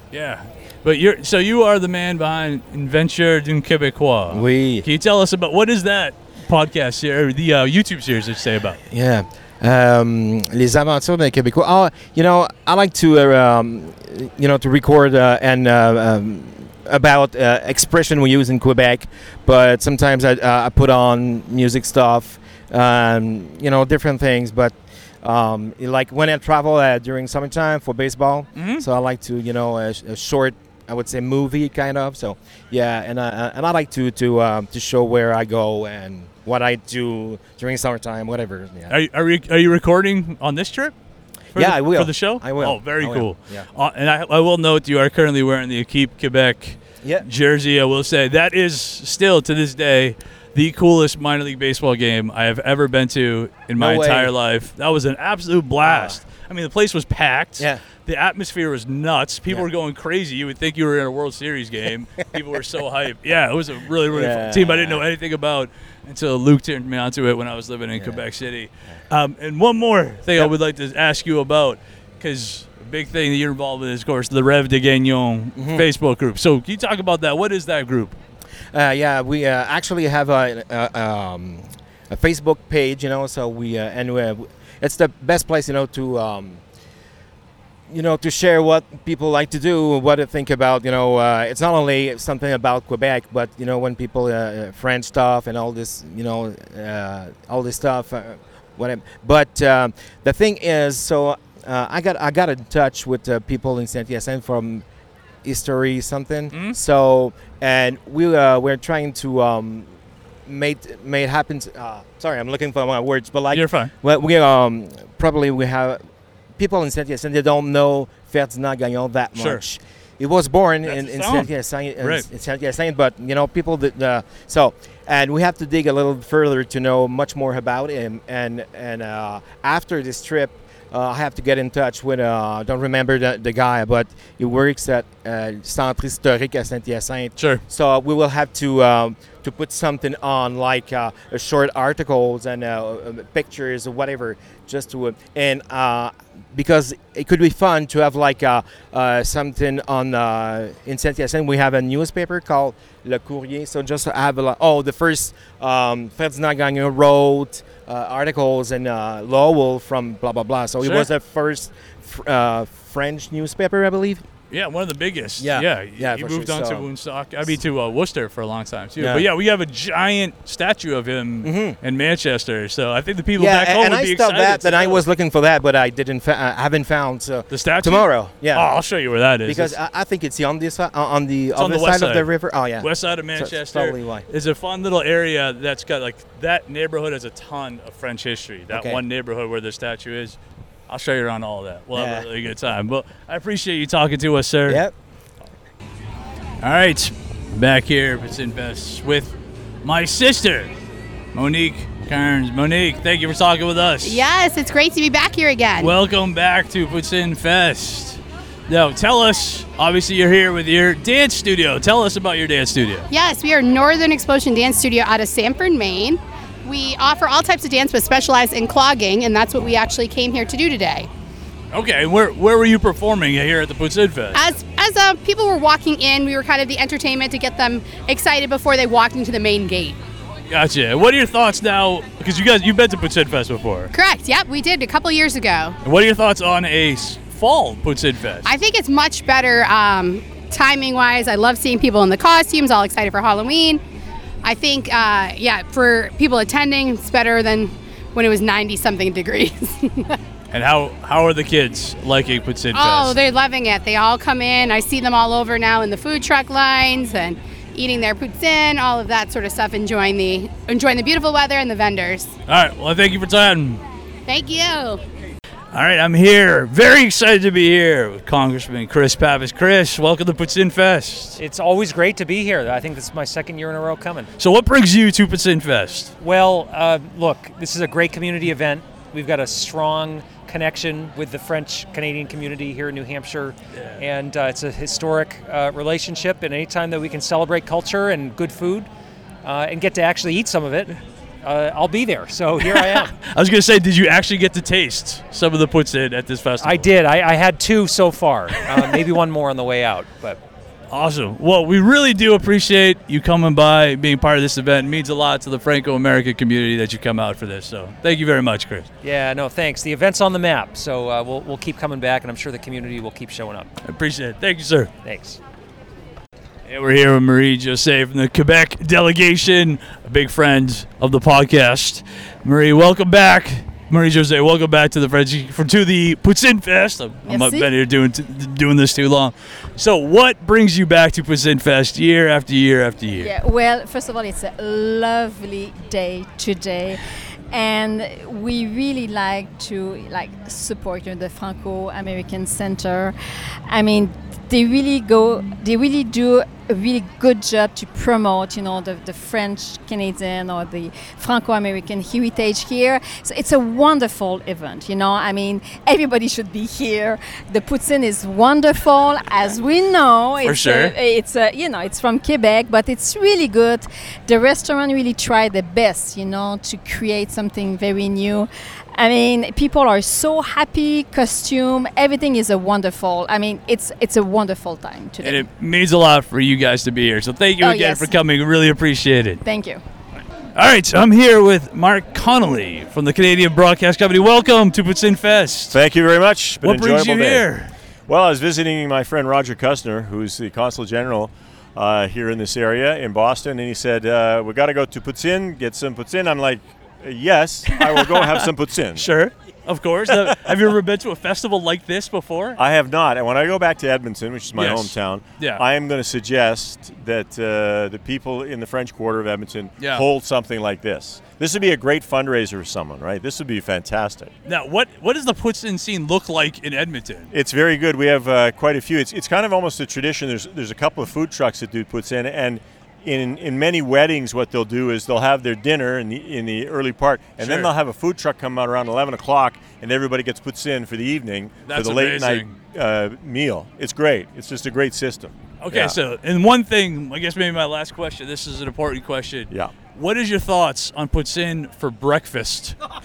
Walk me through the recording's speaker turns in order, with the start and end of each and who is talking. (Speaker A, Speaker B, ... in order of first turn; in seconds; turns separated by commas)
Speaker A: 0.1-8.8, Speaker B: 4.3-4.9, Speaker B: 8.9-38.9, Speaker A: 28.5-28.9, Speaker A: 38.9-40.9, Speaker B: 41.5-43.7, Speaker A: 41.5-78.2, Speaker B: 53.8-54.3, Speaker B: 55.8-56.2, Speaker B: 64.1-65.0, Speaker B: 68.0-68.2, Speaker B: 75.5-75.9, Speaker B: 78.7-86.6, Speaker B: 87.9-104.8, Speaker B: 105.4-109.9, Speaker A: 106.5-106.8, Speaker B: 110.5-116.0, Speaker A: 113.5-113.9, Speaker B: 116.6-164.2, Speaker A: 119.3-119.6, Speaker A: 120.8-121.5, Speaker A: 122.0-122.3, Speaker A: 137.4-137.6, Speaker A: 160.8-161.1, Speaker A: 164.5-175.0, Speaker B: 165.4-166.9, Speaker B: 169.0-169.3, Speaker B: 171.4-171.8, Speaker B: 173.4-178.7, Speaker A: 177.5-179.8, Speaker B: 179.4-184.2, Speaker A: 181.5-182.3, Speaker A: 182.8-190.4, Speaker B: 188.7-189.0, Speaker A: 190.9-194.8, Speaker B: 191.9-192.3, Speaker B: 194.7-194.9, Speaker A: 196.6-200.7, Speaker A: 201.3-204.2, Speaker C: 204.0-205.9, Speaker A: 205.8-213.1, Speaker C: 213.1-221.1, Speaker A: 221.7-224.4, Speaker C: 224.3-230.0, Speaker A: 230.5-233.9, Speaker C: 233.9-235.7, Speaker A: 235.8-238.5, Speaker C: 238.4-243.8, Speaker C: 244.4-250.1, Speaker A: 250.5-253.2, Speaker C: 252.7-262.3, Speaker A: 262.5-263.8, Speaker C: 264.3-265.0, Speaker A: 265.7-271.4, Speaker D: 271.4-274.3, Speaker A: 274.4-276.1, Speaker D: 276.2-288.9, Speaker A: 283.8-284.0, Speaker D: 289.4-293.1, Speaker A: 292.6-296.9, Speaker D: 296.6-300.4, Speaker A: 300.9-308.9, Speaker D: 309.0-313.7, Speaker A: 313.8-314.9, Speaker D: 315.0-315.4, Speaker A: 316.6-333.3, Speaker E: 327.2-327.7, Speaker E: 333.2-337.0, Speaker E: 337.5-343.1, Speaker E: 343.7-375.4, Speaker A: 360.4-360.9, Speaker A: 375.2-379.4, Speaker E: 377.6-378.1, Speaker E: 379.4-379.8, Speaker A: 380.5-385.8, Speaker F: 385.7-387.4, Speaker A: 386.6-387.7, Speaker F: 388.1-399.1, Speaker A: 397.6-402.6, Speaker F: 402.6-414.3, Speaker A: 404.5-405.6, Speaker A: 409.8-410.1, Speaker A: 414.4-417.3, Speaker F: 417.3-435.9, Speaker A: 427.4-427.7, Speaker A: 431.6-432.6, Speaker A: 435.6-442.8